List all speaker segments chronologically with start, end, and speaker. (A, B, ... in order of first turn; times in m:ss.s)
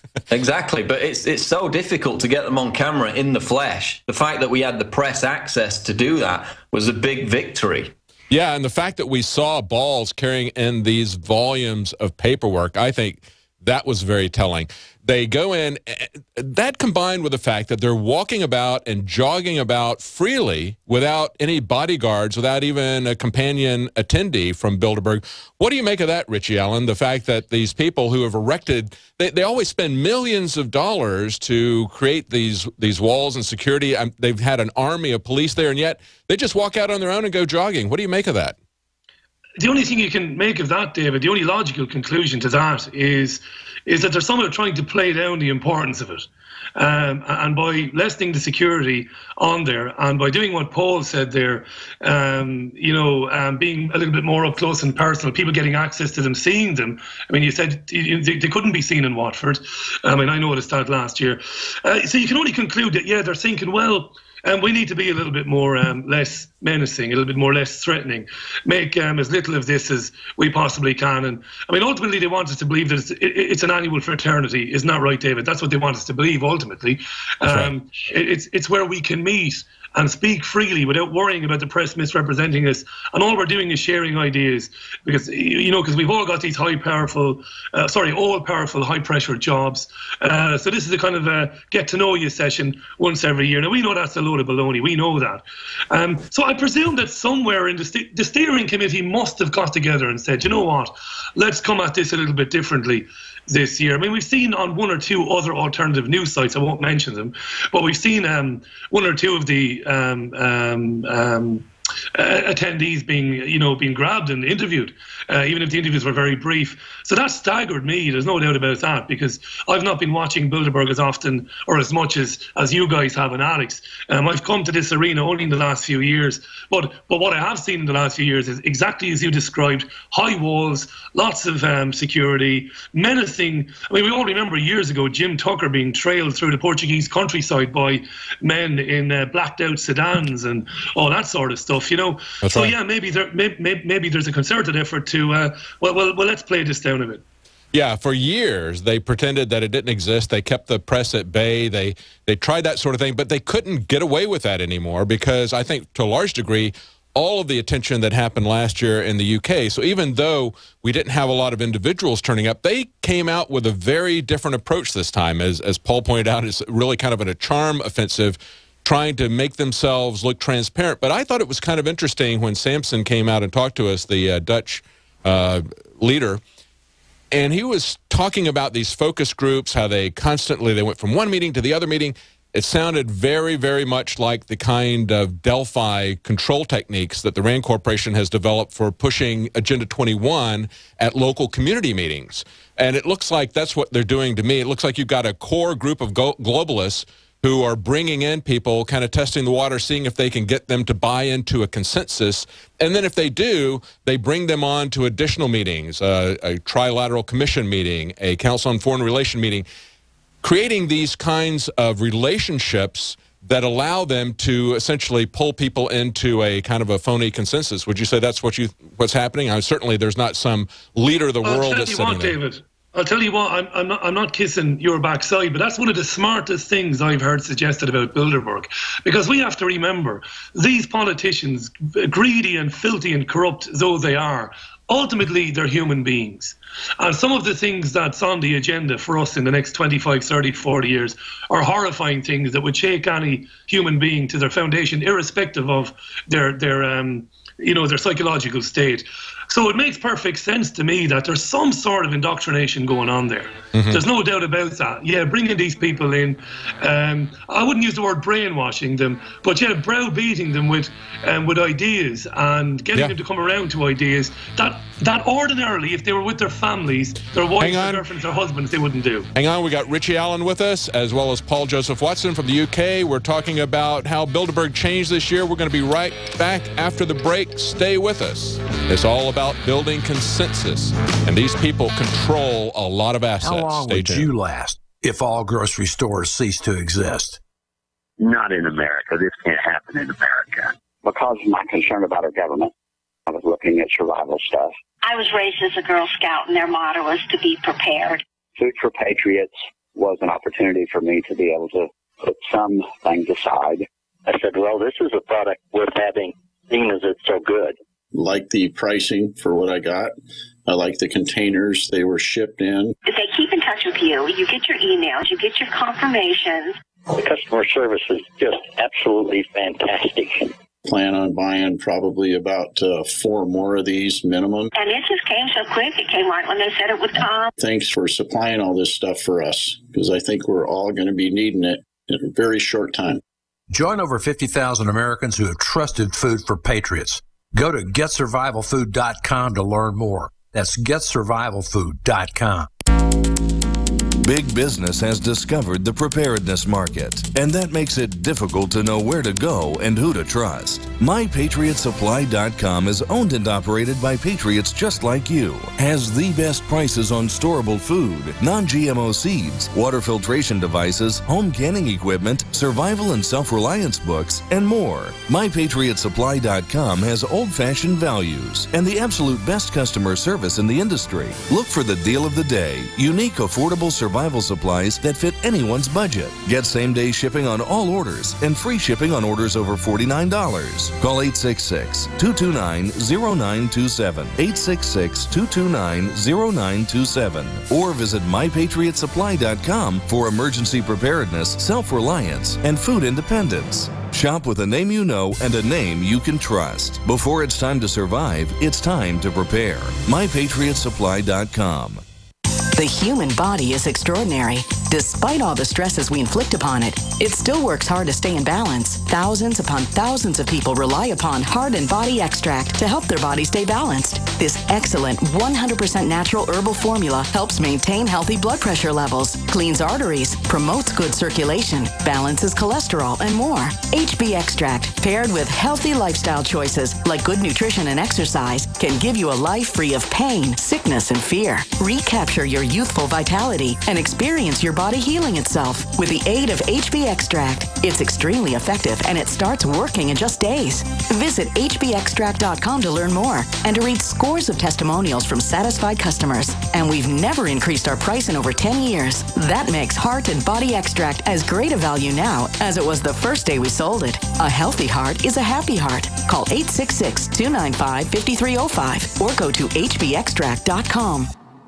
0:00.3-0:07.9 A
0:08.3-0:38.5 B
0:39.6-2:27.2 C
1:17.4-1:17.7 B
2:22.4-2:22.7 B
2:27.7-2:56.4 B
2:57.3-3:29.6 B
3:30.4-3:42.4 B
3:41.4-4:29.3 C
4:13.7-4:14.0 B
4:27.6-4:28.0 B
4:29.3-4:44.3 B
4:43.4-4:47.4 D
4:48.2-4:52.7 E
4:53.3-4:54.7 E
4:55.0-4:58.2 F
4:58.6-5:07.8 E
5:08.1-5:10.1 G
5:10.6-5:12.9 G
5:13.0-5:16.7 F
5:17.1-5:20.5 E
5:20.8-5:24.7 G
5:24.7-5:27.5 F
5:27.6-5:33.2 G
5:33.7-5:42.7 D
5:44.2-6:42.0 H
6:42.7-7:41.3 I